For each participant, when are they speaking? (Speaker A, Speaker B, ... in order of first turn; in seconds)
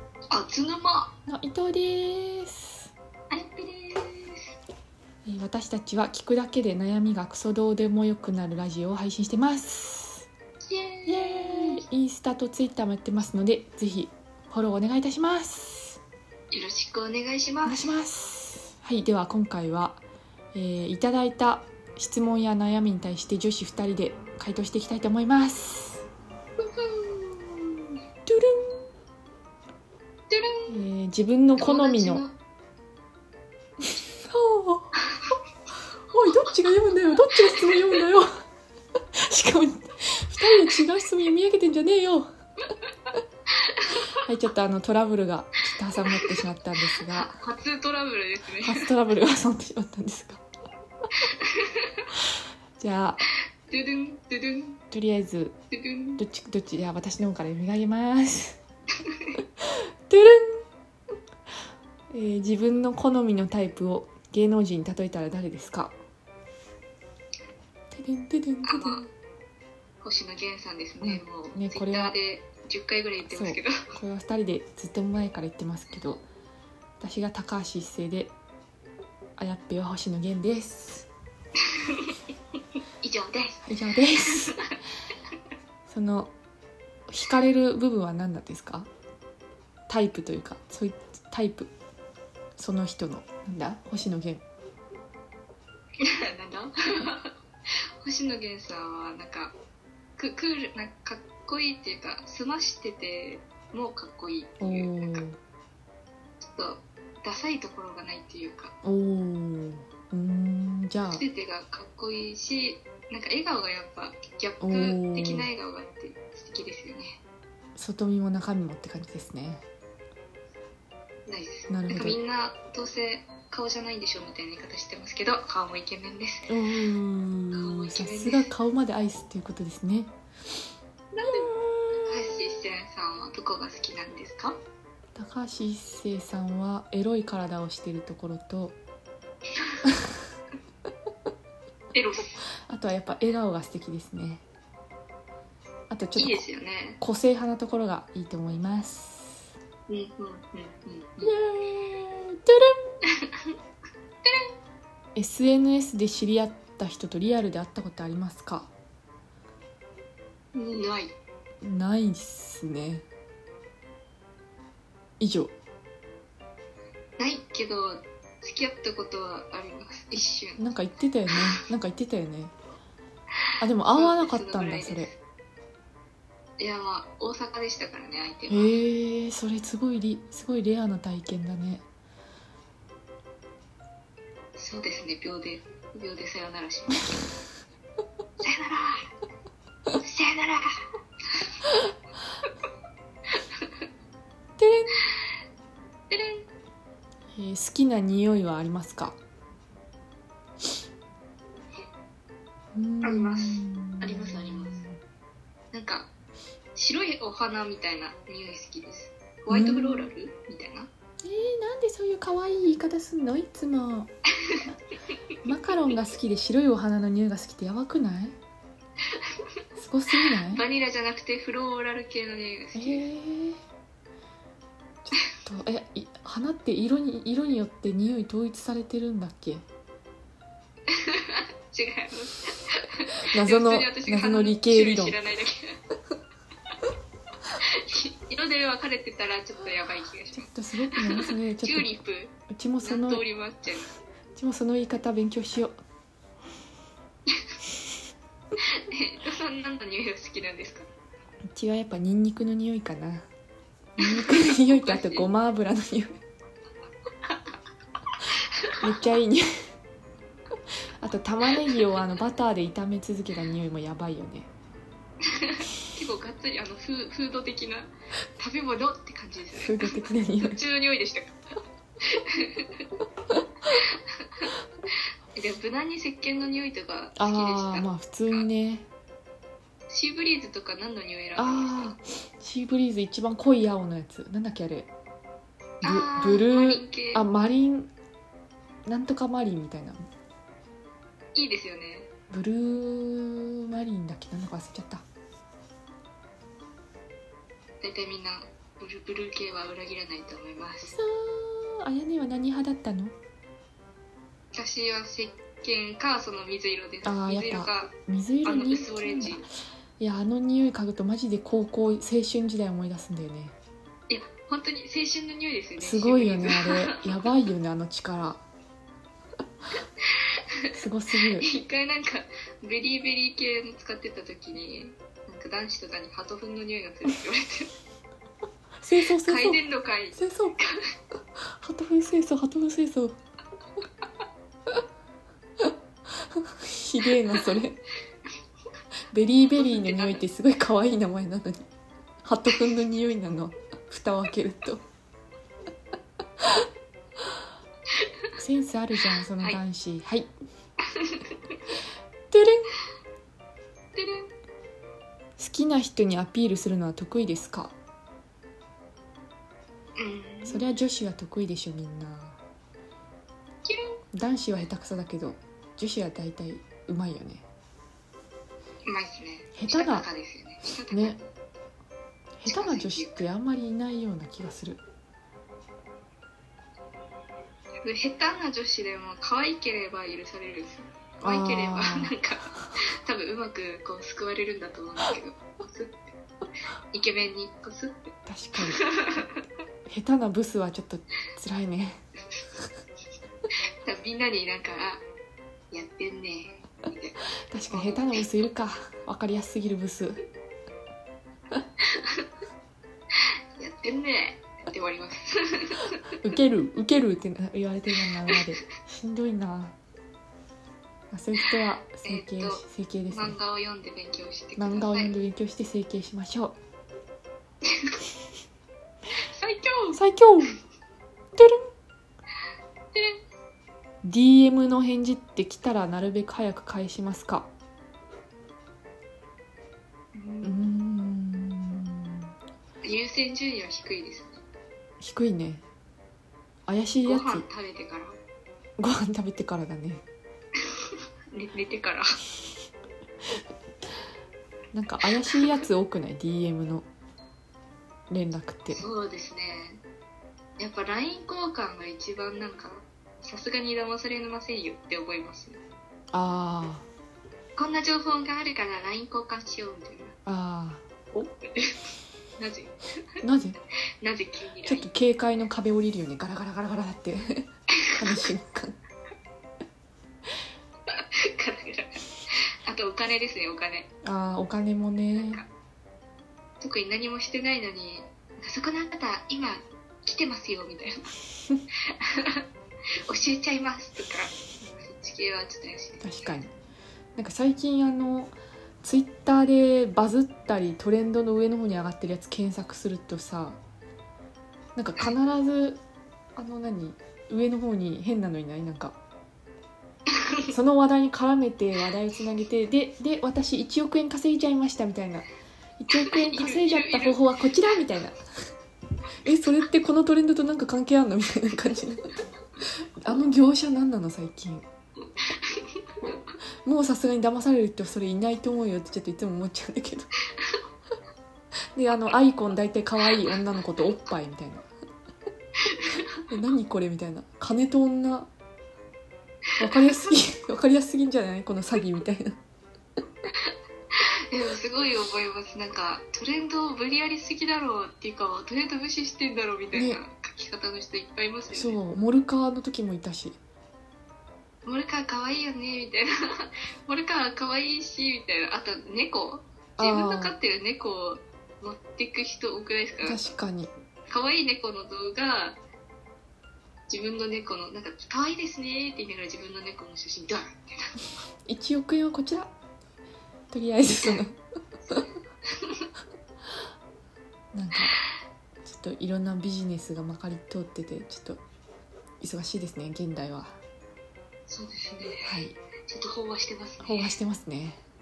Speaker A: 0.3-1.1, 3.3-4.5, 10.7-11.8, 16.5-17.9, 26.6-27.9, 30.3-30.8, 31.6-32.3, 37.4-38.0, 43.6-44.1, 46.1-46.4, 47.0-48.9, 51.2-52.1, 53.7-54.8, 55.7-56.2, 59.0-59.3, 68.6-69.1, 70.0-73.8, 81.7-82.2, 83.0-83.7, 84.3-84.7, 96.0-97.3, 98.0-99.5, 100.2-105.2, 106.5-108.7, 111.1-117.2, 121.3-126.5, 127.5-128.5, 131.1-131.5, 132.0-134.6, 141.9-142.4, 146.2-147.0, 149.9-151.3, 153.0-153.5, 154.2-154.5, 160.6-161.1, 167.2-170.6, 173.9-175.2, 176.6-178.7, 184.6-187.3, 188.4-189.1, 190.0-190.8, 196.1-196.5, 203.0-204.8, 205.7-206.1, 206.8-210.9, 220.2-223.1, 230.9-235.8, 237.6-243.9, 248.6-250.9, 254.0-255.3, 258.3-258.7, 265.3-271.4, 272.0-272.8, 273.7-274.5, 275.4-278.5, 279.9-282.0, 285.8-287.2, 291.3-292.1, 297.8-300.9, 304.5-309.4, 314.1-317.0, 321.4-327.7, 329.2-330.9, 339.6-340.2, 350.8-351.6, 353.9-354.3, 360.0-360.6, 363.6-364.0, 368.9-371.2, 372.4-373.2, 377.8-386.1, 386.9-389.3, 393.8-395.0, 395.7-398.3, 401.8-402.2, 403.6-406.0, 412.0-415.2, 417.6-418.0, 419.3-420.0, 422.9-423.2, 430.1-430.6, 432.8-434.4, 437.0-438.2, 441.3-442.1, 445.2-445.6, 448.7-449.8, 450.6-455.6, 457.6-460.1, 461.1-462.9, 464.0-464.9, 467.8-468.3, 470.9-473.9, 475.1-475.5, 476.6-481.1, 481.9-482.4, 483.1-486.4, 500.1-500.5, 506.1-507.2, 515.2-516.1, 525.6-526.2, 529.6-529.9, 533.4-541.8, 544.6-553.2, 554.1-555.6, 556.9-561.0, 565.5-565.9, 574.5-577.2
Speaker B: 1.3-2.9, 5.2-10.3, 11.1-16.0, 17.6-20.0, 20.5-26.0, 28.2-28.9, 30.7-32.2, 33.8-35.0, 36.1-38.3, 39.2-42.3, 44.2-47.4, 48.6-50.4, 52.8-53.3, 54.9-55.5, 56.2-58.6, 59.6-60.6, 62.1-65.9, 67.9-69.0, 71.0-72.2, 73.2-76.2, 77.0-78.3, 79.4-81.1, 83.7-84.6, 85.9-86.3, 87.1-88.9, 89.9-91.7, 92.6-94.4, 104.6-105.4, 108.8-111.2, 114.6-115.5, 117.8-119.6, 121.7-122.2, 126.5-130.1, 131.4-132.2, 135.2-138.8, 142.7-144.4, 145.9-146.4, 147.0-149.5, 151.2-152.8, 155.2-158.7, 161.6-163.1, 165.2-165.5, 170.6-172.5, 173.6-175.1, 178.5-181.8, 194.6-194.9, 197.3-199.2, 202.7-205.0, 209.5-210.1, 211.2-214.1, 215.4-218.4, 219.8-220.6, 222.8-223.6, 225.0-229.6, 233.3-235.2, 240.3-243.2, 244.4-245.7, 251.5-253.3, 254.0-256.2, 258.8-259.5, 261.0-264.5, 269.5-270.6, 277.1-278.9, 281.4-284.9, 285.8-287.9, 288.9-290.0, 292.3-295.0, 300.9-303.1, 307.0-309.5, 310.0-313.5, 315.8-318.4, 320.7-321.5, 328.8-329.6, 330.1-330.6, 331.4-333.1, 336.3-337.8, 339.1-341.7, 342.2-344.8, 348.4-350.3, 352.3-352.7, 355.4-357.7, 360.4-362.4, 364.1-367.4, 369.5-370.1, 370.9-371.2, 372.4-374.8, 381.2-382.1, 388.3-388.8, 389.9-392.0, 397.5-400.2, 406.2-409.8, 411.1-413.4, 414.6-416.6, 419.9-420.6, 421.4-421.6, 424.0-427.5, 430.4-432.3, 435.0-435.6, 436.7-437.4, 438.8-440.0, 444.7-446.9, 448.1-448.8, 456.1-456.9, 460.2-460.8, 463.2-463.6, 464.6-468.8, 474.0-475.4, 486.0-486.5, 487.1-493.6, 494.8-495.8, 496.4-499.0, 500.5-505.3, 505.8-508.3, 509.2-512.1, 513.0-514.6, 516.6-520.1, 521.8-524.7, 526.3-528.3, 529.6-532.4, 539.7-540.0, 541.5-543.4, 549.8-550.4, 553.0-553.7, 561.5-562.5, 563.5-564.4, 567.5-568.0, 568.6-571.4, 572.2-573.6, 575.2-575.6, 576.8-577.8